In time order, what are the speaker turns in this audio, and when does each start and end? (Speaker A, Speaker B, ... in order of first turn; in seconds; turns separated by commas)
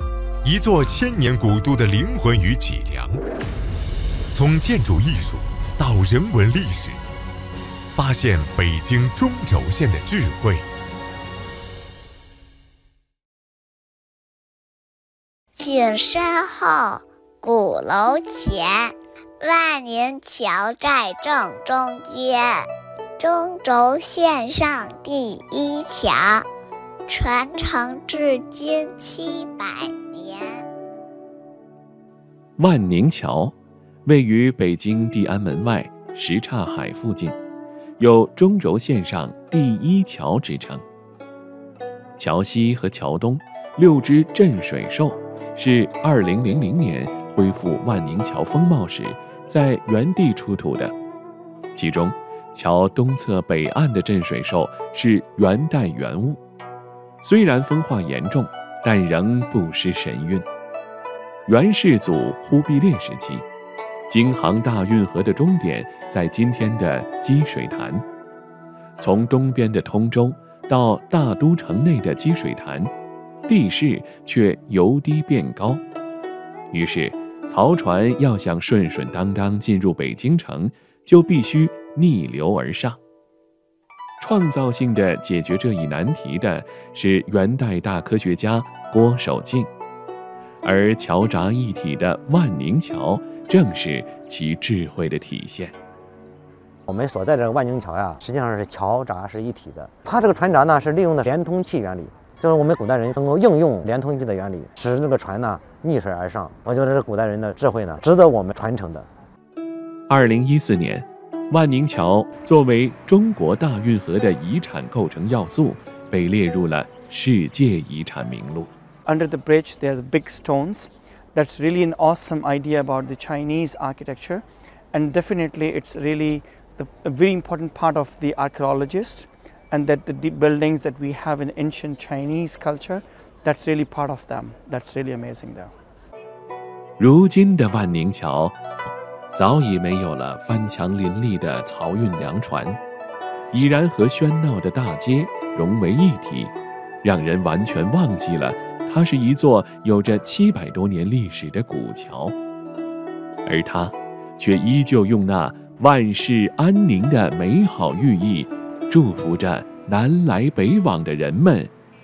Speaker A: 0.4-3.2, Speaker A: 4.3-7.0, Speaker A: 7.9-10.7, Speaker B: 15.5-22.7, Speaker B: 23.2-26.5, Speaker B: 27.1-30.6, Speaker C: 32.6-33.5, Speaker C: 34.0-37.4, Speaker C: 38.0-40.8, Speaker C: 42.2-50.9, Speaker C: 51.7-56.4, Speaker C: 57.2-60.5, Speaker C: 61.5-63.5, Speaker C: 64.1-68.0, Speaker C: 69.0-72.9, Speaker C: 73.5-75.8, Speaker C: 76.7-83.0, Speaker C: 84.2-89.7, Speaker C: 90.6-95.7, Speaker D: 96.9-109.1, Speaker C: 110.1-118.7, Speaker E: 119.0-135.7, Speaker C: 137.0-138.6, Speaker C: 139.3-142.8, Speaker C: 143.5-152.3, Speaker C: 153.4-161.7